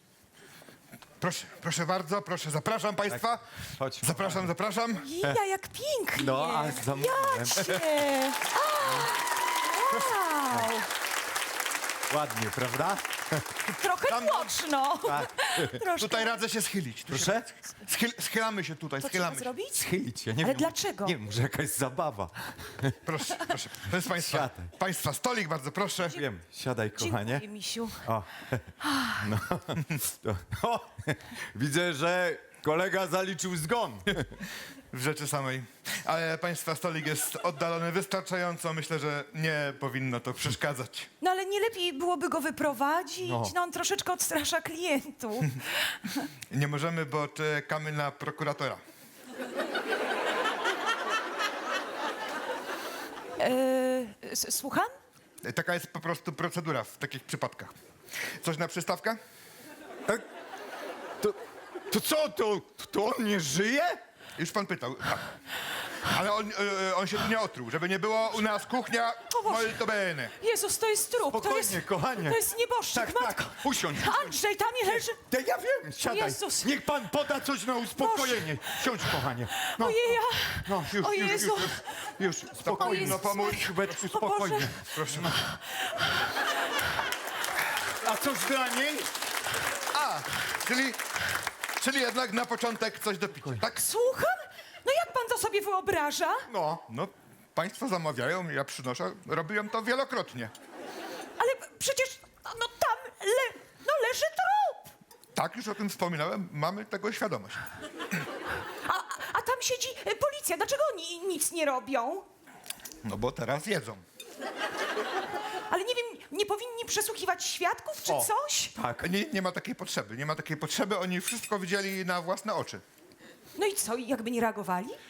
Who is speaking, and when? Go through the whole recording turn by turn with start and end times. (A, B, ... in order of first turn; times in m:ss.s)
0:01.2-0:03.4 A
0:03.1-0:04.5 B
0:04.0-0:05.0 A
0:05.0-0:10.9 C
0:06.2-0:07.9 B
0:12.1-0:13.4 B
0:13.7-0:16.4 C
0:14.1-0:14.5 A
0:15.0-0:15.8 B
0:16.0-0:19.5 A
0:17.1-0:17.5 B
0:19.0-0:21.2 C
0:19.7-0:23.0 B
0:23.0-0:26.1 A
0:24.1-0:24.7 B
0:26.1-0:27.5 B
0:27.0-0:28.0 C
0:28.0-0:34.2 B
0:28.8-0:29.2 C
0:34.9-0:41.1 A
0:41.2-0:46.1 C
0:43.2-0:43.5 B
0:46.5-0:48.8 A
0:53.4-0:54.9 C
0:55.4-0:57.7 A
0:58.4-0:59.2 A
1:01.9-1:04.0 B
1:04.4-1:05.3 A
1:06.1-1:10.3 A
1:09.3-1:09.8 C
1:10.4-1:15.2 C
1:11.3-1:12.4 B
1:12.9-1:25.3 B
1:16.0-1:16.7 C
1:18.0-1:19.1 C
1:19.7-1:24.8 C
1:22.6-1:24.0 A
1:24.9-1:25.3 A
1:28.0-1:29.1 B
1:29.9-1:31.0 A
1:31.8-1:33.7 A
1:33.6-1:36.4 C
1:36.5-1:36.8 B
1:36.9-1:40.5 A
1:41.4-1:44.9 C
1:45.3-1:47.6 A
1:48.8-1:52.3 C
1:53.0-1:54.0 A
1:55.7-1:58.7 C
1:58.0-1:59.1 B
1:59.0-2:02.8 A
2:03.6-2:05.0 C